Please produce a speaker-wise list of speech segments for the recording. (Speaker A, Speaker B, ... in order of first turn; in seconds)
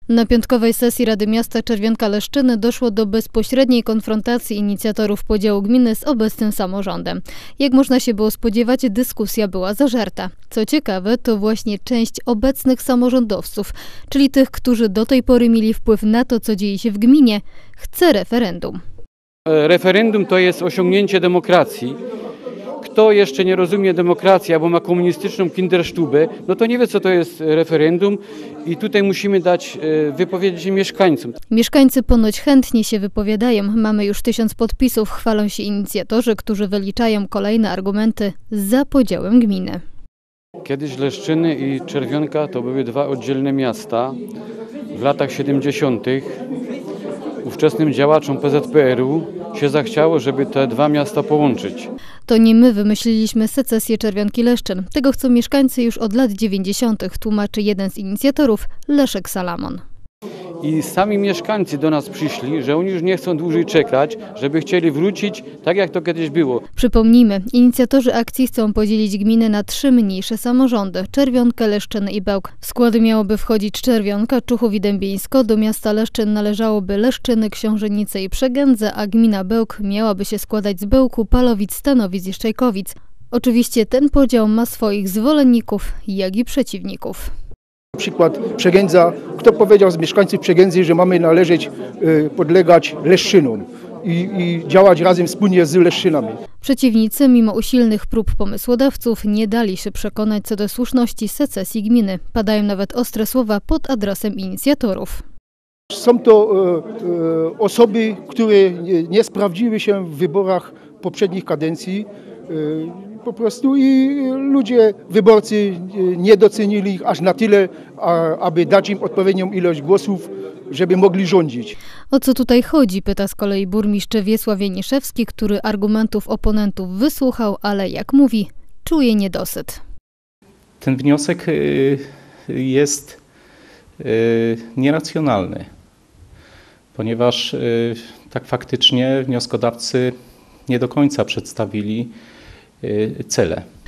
Speaker A: 0.1-18.8, 31.5-39.8, 52.3-59.8, 66.7-87.3, 96.6-105.2, 122.1-129.8
Speaker B: 19.5-22.0, 22.8-31.4, 40.6-44.2, 44.9-46.3, 47.4-51.9, 60.6-66.6
Speaker C: 87.9-96.3, 105.9-121.7
Speaker D: 130.8-132.0, 132.5-133.1, 134.0-135.6, 137.0-140.1, 140.7-142.1, 142.8-143.6